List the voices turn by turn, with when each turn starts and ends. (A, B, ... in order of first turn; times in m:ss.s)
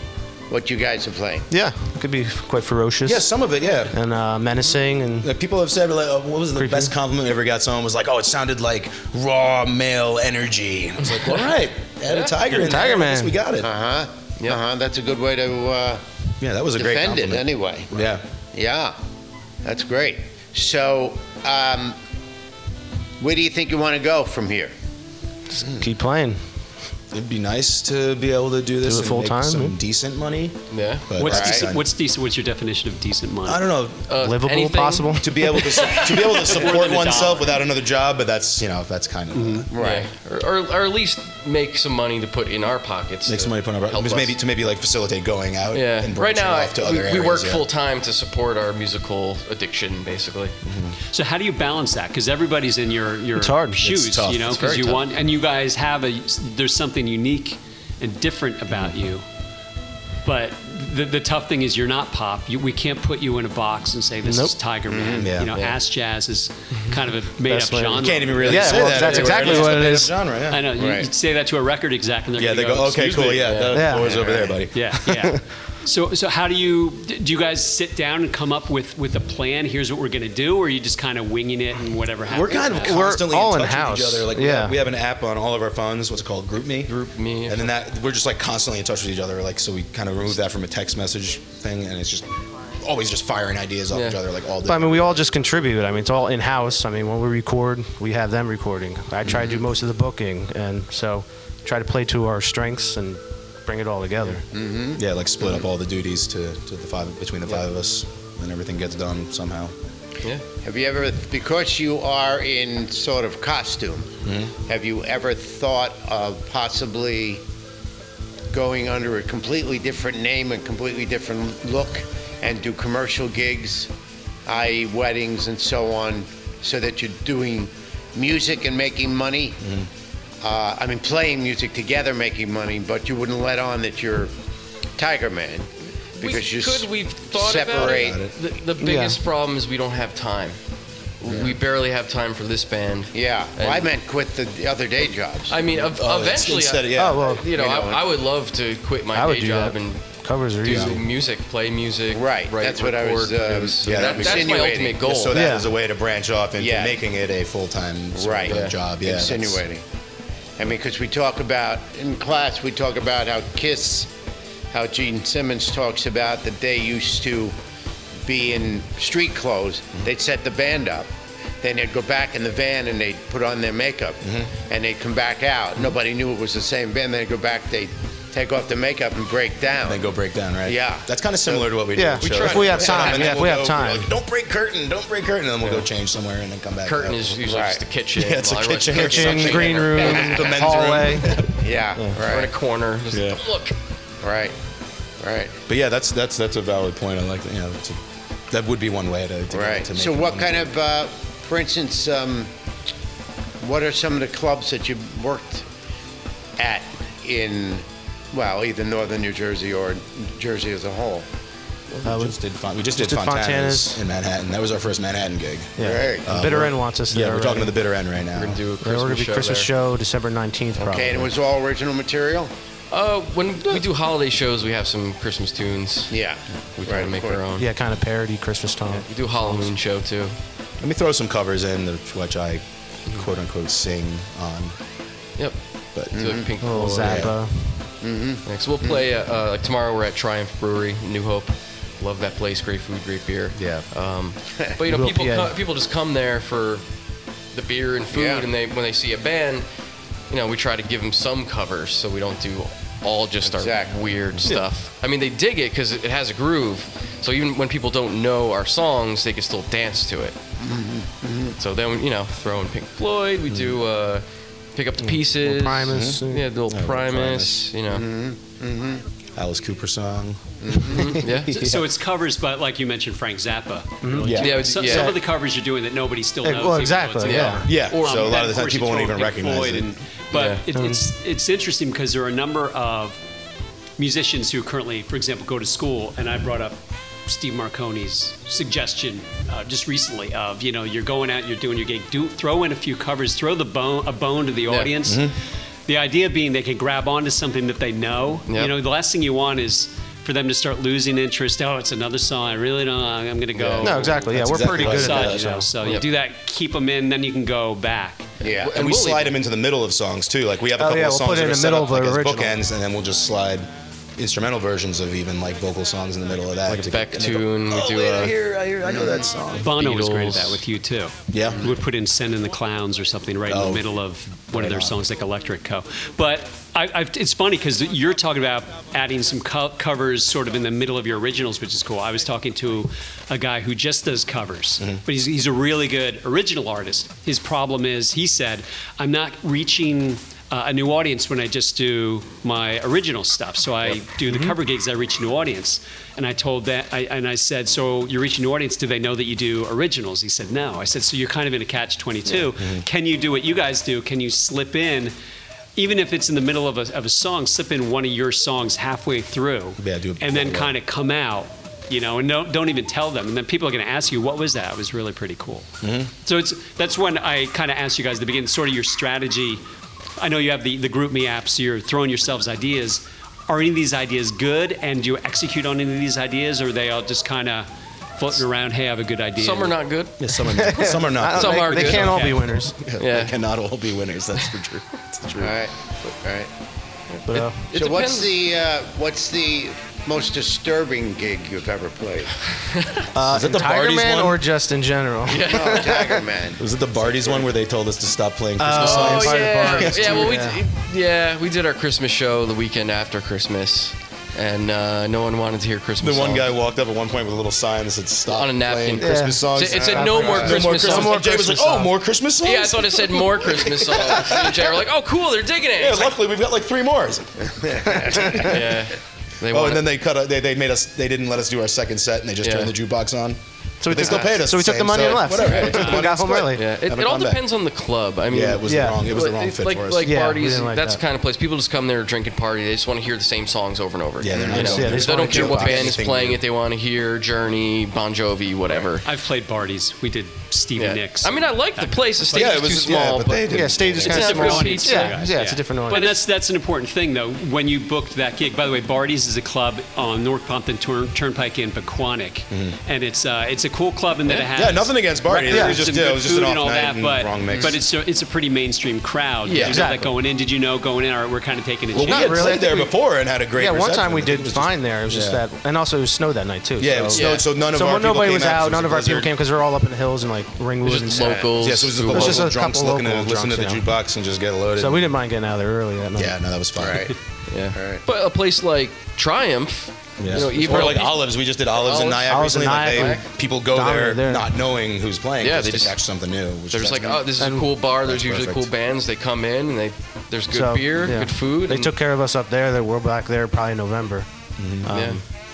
0:00.5-0:01.5 A
0:01.5-0:03.2 B
0:03.0-0:04.0 C
0:03.9-0:05.3 B
0:05.2-0:13.7 C
0:06.6-0:06.9 B
0:12.1-0:12.4 D
0:12.5-0:13.4 B
0:13.6-0:16.0 A
0:16.4-0:18.2 C
0:16.8-0:17.9 A
0:18.5-0:19.0 A
0:19.6-0:22.0 A
0:23.2-0:24.7 A
0:25.6-0:26.4 B
0:27.1-0:31.8 C
0:28.8-0:29.8 B
0:30.7-0:31.1 D
0:31.2-0:33.6 E
0:31.3-0:31.6 A
0:33.5-0:34.1 C
0:34.1-0:37.3 D
0:34.1-0:35.4 B
0:35.2-0:39.7 C
0:36.2-0:37.5 E
0:39.3-0:39.7 E
0:39.7-0:40.1 A
0:39.7-0:44.4 D
0:43.3-0:47.7 C
0:45.7-0:50.6 D
0:50.6-0:51.0 C
0:51.1-0:59.2 E
0:53.4-0:53.8 B
0:53.8-0:54.8 C
0:54.5-0:55.0 D
1:00.2-1:13.6 E
1:04.2-1:04.5 B
1:04.9-1:05.3 A
1:05.2-1:05.5 C
1:07.4-1:10.1 B
1:08.0-1:10.7 C
1:09.0-1:09.4 D
1:10.8-1:11.1 A
1:12.4-1:14.9 C
1:13.4-1:13.9 D
1:13.7-1:14.2 B
1:14.0-1:14.6 A
1:14.7-1:23.0 E
1:15.0-1:15.4 B
1:22.3-1:26.9 C
1:22.8-1:24.8 B
1:26.9-1:27.7 D
1:27.5-1:35.2 C
1:33.9-1:34.2 D
1:34.6-1:44.4 B
1:44.5-1:45.6 A
1:45.0-1:49.7 C
1:50.6-1:54.1 A
1:54.2-1:54.5 C
1:54.7-1:57.4 A
1:58.5-2:03.9 A
2:04.5-2:09.6 A
2:09.6-2:09.9 C
2:10.4-2:14.3 A
2:15.0-2:18.2 A
2:16.2-2:20.6 D
2:17.8-2:18.3 C
2:18.8-2:19.2 B
2:21.2-2:23.9 D
2:21.3-2:21.6 A
2:23.1-2:25.6 A
2:25.5-2:35.4 D
2:25.8-2:27.3 C
2:26.9-2:27.4 B
2:27.4-2:28.0 A
2:29.1-2:31.0 B
2:30.7-2:31.0 C
2:32.1-2:35.0 A
2:33.8-2:39.6 C
2:35.3-2:35.7 B
2:36.6-2:37.0 A
2:38.2-2:39.8 A
2:38.5-2:38.8 D
2:40.6-2:44.1 A
2:44.7-2:47.6 A
2:48.2-3:00.1 A
2:54.2-2:54.5 C
2:59.8-3:07.4 C
3:00.6-3:01.8 A
3:01.9-3:04.1 B
3:02.2-3:03.3 D
3:02.3-3:03.3 A
3:06.8-3:10.5 D
3:07.5-3:07.8 A
3:08.2-3:11.6 C
3:08.9-3:12.2 B
3:10.0-3:10.5 A
3:11.4-3:12.5 A
3:12.2-3:13.8 D
3:13.1-3:13.4 C
3:14.2-3:14.6 A
3:15.2-3:15.6 A
3:15.7-3:18.0 C
3:18.5-3:20.8 C
3:19.5-3:22.5 A
3:23.6-3:25.7 A
3:26.6-3:31.3 A
3:32.0-3:32.4 B
3:32.0-3:38.6 C
3:33.0-3:34.0 B
3:35.8-3:37.8 B
3:35.8-3:36.3 A
3:38.4-3:39.7 D
3:38.8-3:41.3 B
3:40.8-3:42.5 A
3:42.9-3:46.1 D
3:46.1-3:47.4 A
3:46.8-3:47.7 D
3:47.6-3:49.7 B
3:48.9-3:50.4 D
3:50.8-3:54.8 C
3:56.1-3:57.3 D
3:56.1-3:56.5 A
3:56.6-3:57.8 B
3:56.9-3:57.4 C
3:58.0-3:59.0 A
3:58.5-4:06.8 D
4:03.6-4:03.9 C
4:04.9-4:05.5 B
4:07.5-4:09.6 D
4:08.1-4:08.5 A
4:10.3-4:20.4 D
4:13.4-4:14.0 A
4:20.6-4:21.6 A
4:21.6-4:28.1 D
4:25.0-4:26.5 B
4:25.9-4:27.6 C
4:27.9-4:29.0 A
4:29.4-4:31.8 C
4:30.6-4:31.2 A
4:30.8-4:31.6 D
4:31.4-4:43.2 E
4:34.0-4:35.2 B
4:34.2-4:34.6 C
4:34.4-4:35.2 D
4:36.4-4:37.7 B
4:37.2-4:38.3 D
4:37.6-4:39.9 C
4:40.3-4:40.6 D
4:40.7-4:41.1 B
4:44.0-4:55.3 E
4:55.0-4:55.4 C
4:55.9-5:08.3 E
4:58.5-4:58.7 D
5:03.6-5:05.5 C
5:03.8-5:05.7 B
5:08.4-5:08.8 A
5:08.4-5:09.3 D
5:08.7-5:19.7 C
5:10.8-5:12.6 B
5:16.7-5:18.4 D
5:18.9-5:19.3 A
5:19.6-5:55.2 E
5:19.7-5:20.6 D
5:21.3-5:21.7 C
5:23.5-5:23.9 C
5:24.5-5:25.0 C
5:52.4-5:52.8 C
5:55.8-6:05.7 E
5:59.8-6:00.7 C
6:05.8-6:06.1 C
6:06.2-6:09.6 E
6:10.2-6:19.8 E
6:19.4-6:22.2 D
6:20.2-6:22.2 C
6:20.5-6:22.8 B
6:21.8-6:22.4 E
6:22.8-6:25.6 C
6:23.0-6:23.4 D
6:25.4-6:26.5 A
6:27.1-6:28.3 D
6:27.3-6:27.7 B
6:27.7-6:32.4 A
6:32.7-6:33.0 D
6:33.1-6:36.2 B
6:33.3-6:34.4 C
6:35.3-6:36.0 D
6:35.4-6:37.5 A
6:36.6-6:40.4 C
6:38.6-6:40.6 B
6:38.7-6:46.5 D
6:46.0-6:54.7 C
6:48.3-6:51.3 D
6:49.0-6:51.9 B
6:52.4-6:56.2 D
6:55.8-6:58.6 C
6:57.6-6:58.4 A
6:58.1-6:58.4 B
6:58.2-6:59.9 D
6:59.5-7:07.4 C
7:02.4-7:02.7 D
7:03.8-7:06.6 B
7:05.5-7:19.1 D
7:08.3-7:10.1 C
7:08.7-7:09.0 B
7:10.0-7:11.0 B
7:14.2-7:16.4 C
7:14.5-7:16.0 B
7:19.0-7:22.1 E
7:20.8-7:25.2 D
7:22.3-7:24.4 C
7:23.5-7:26.1 B
7:24.1-7:42.6 E
7:25.9-7:26.2 D
7:34.6-7:37.8 C
7:35.5-7:35.8 B
7:39.4-7:39.8 D
7:39.6-7:40.1 B
7:42.0-7:42.9 B
7:42.0-7:45.4 C
7:43.6-7:51.4 B
7:46.8-7:49.3 C
7:47.1-7:47.4 D
7:50.8-7:52.5 D
7:51.1-7:51.6 A
7:51.6-7:55.1 C
7:52.0-7:53.8 B
7:54.8-7:56.4 B
7:56.2-7:57.1 C
7:56.8-7:57.2 A
7:57.5-8:03.2 D
7:57.7-7:58.0 A
8:00.2-8:07.2 C
8:02.3-8:04.5 B
8:05.4-8:06.0 D
8:06.7-8:11.9 D
8:07.4-8:07.6 B
8:08.0-8:08.7 C
8:10.5-8:14.3 B
8:14.6-8:14.9 C
8:14.8-8:15.2 B
8:14.9-8:15.2 D